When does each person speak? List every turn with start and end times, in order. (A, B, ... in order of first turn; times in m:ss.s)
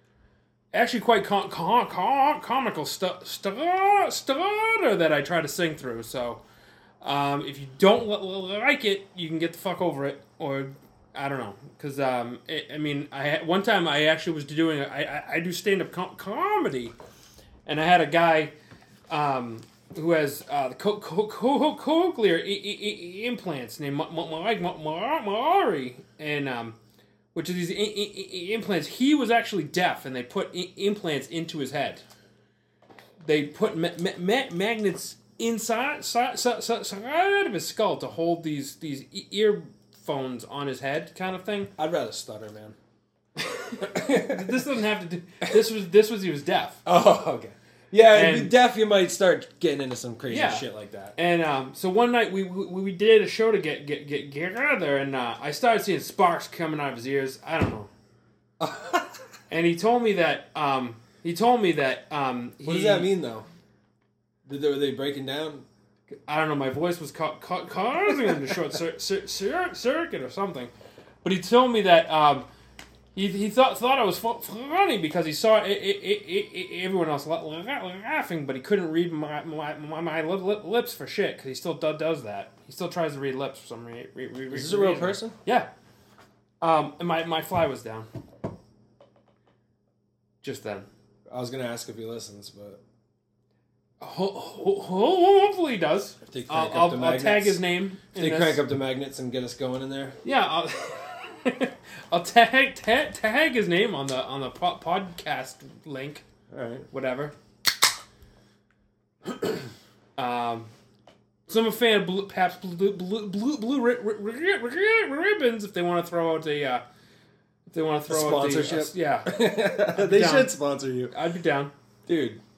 0:00.7-0:06.4 A
0:07.0-0:16.9 A
0:17.7-0:18.5 A
0:19.1-0:26.8 A
0:27.3-0:32.0 A
0:33.2-0:41.7 A
0:41.8-0:42.8 B
0:43.4-0:44.8 B
0:44.0-0:46.8 A
0:46.8-0:51.1 B
0:48.1-0:48.5 A
0:50.3-0:57.9 A
0:58.6-0:59.1 B
0:59.5-1:03.1 A
1:02.6-1:03.5 B
1:04.4-1:05.6 B
1:06.3-1:10.7 A
1:11.2-1:12.5 A
1:13.1-1:25.7 A
1:24.5-1:25.4 B
1:26.6-1:28.1 A
1:30.4-1:30.9 A
1:31.3-1:32.8 B
1:34.0-1:38.6 A
1:36.3-1:37.6 B
1:38.1-1:40.2 B
1:40.2-1:46.2 A
1:46.5-1:46.8 B
1:46.9-1:47.3 A
1:50.2-1:50.7 A
1:51.5-1:56.8 A
1:57.7-2:00.6 A
1:58.1-2:01.1 B
2:01.1-2:01.7 A
2:02.1-2:02.4 B